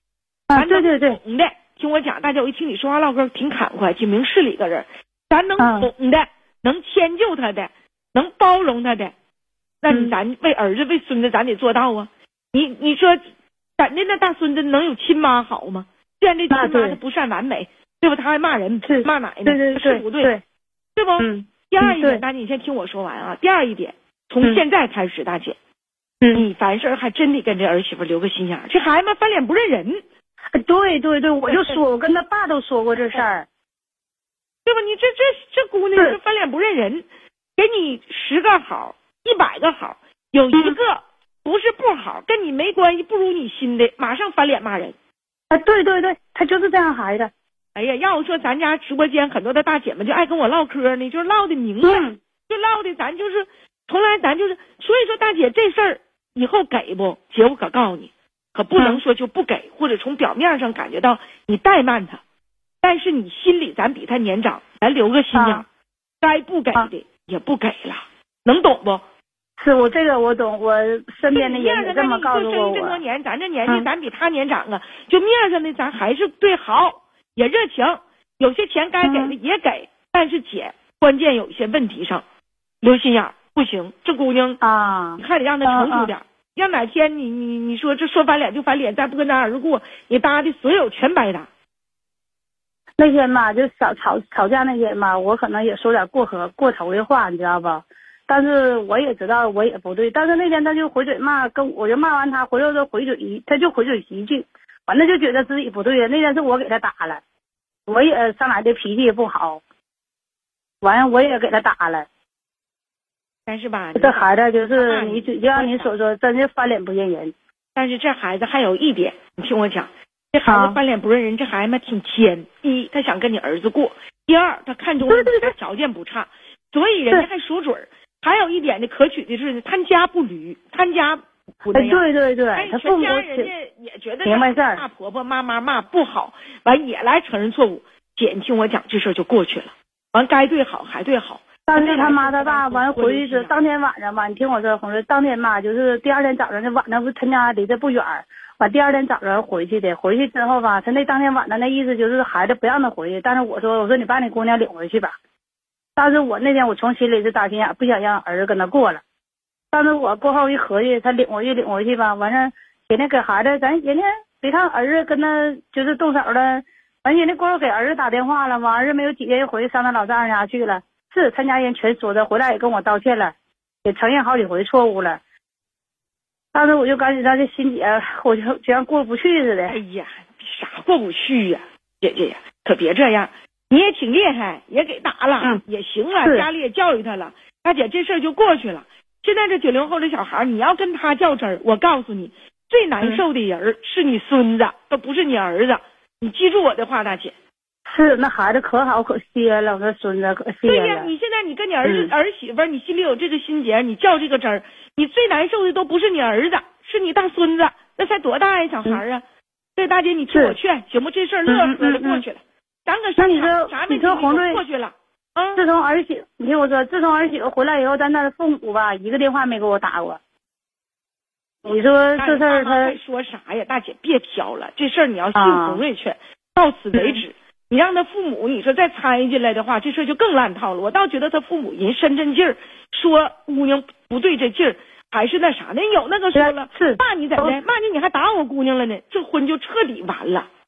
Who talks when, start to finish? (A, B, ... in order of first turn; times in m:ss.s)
0:00.5-0:01.2 A
0:00.5-0:09.1 B
0:05.6-0:05.9 A
0:09.8-0:13.2 B
0:09.9-0:10.1 A
0:13.8-0:20.3 B
0:16.5-0:17.0 A
0:18.8-0:20.4 A
0:20.9-0:25.6 B
0:21.2-0:22.2 A
0:26.3-0:30.0 B
0:30.5-0:33.5 A
0:31.5-0:31.8 B
0:34.6-0:37.0 B
0:37.6-0:45.0 B
0:45.5-0:47.3 A
0:47.7-1:02.2 B
0:51.8-0:52.2 A
0:58.8-0:59.0 A
1:02.8-1:05.7 B
1:05.3-1:05.6 A
1:06.2-1:09.0 B
1:09.6-1:13.0 A
1:11.3-1:22.2 B
1:19.0-1:19.3 A
1:22.8-1:24.6 B
1:24.6-1:26.1 A
1:25.2-1:31.5 B
1:33.0-1:47.2 A
1:47.9-1:49.6 A
1:50.8-1:52.1 A
1:53.4-1:55.9 B
1:53.9-1:57.3 A
1:57.7-2:12.0 B
2:00.4-2:00.8 A
2:05.1-2:05.5 A
2:11.7-2:13.5 A
2:12.5-2:23.5 B
2:14.2-2:14.8 A
2:21.7-2:35.2 A
2:36.0-2:39.0 A
2:39.7-2:53.3 A
2:53.8-2:55.2 A
2:56.5-2:59.8 A
2:59.7-3:17.3 B
3:17.8-3:21.1 A
3:20.6-3:29.2 B
3:21.8-3:22.1 A
3:29.8-3:35.6 B
3:30.3-3:30.6 A
3:31.5-3:32.2 A
3:33.2-3:34.6 A
3:35.6-3:40.2 A
3:41.6-3:43.0 A
3:42.2-4:00.5 B
3:45.3-3:45.8 A
3:46.9-3:47.2 A
3:56.3-3:57.6 A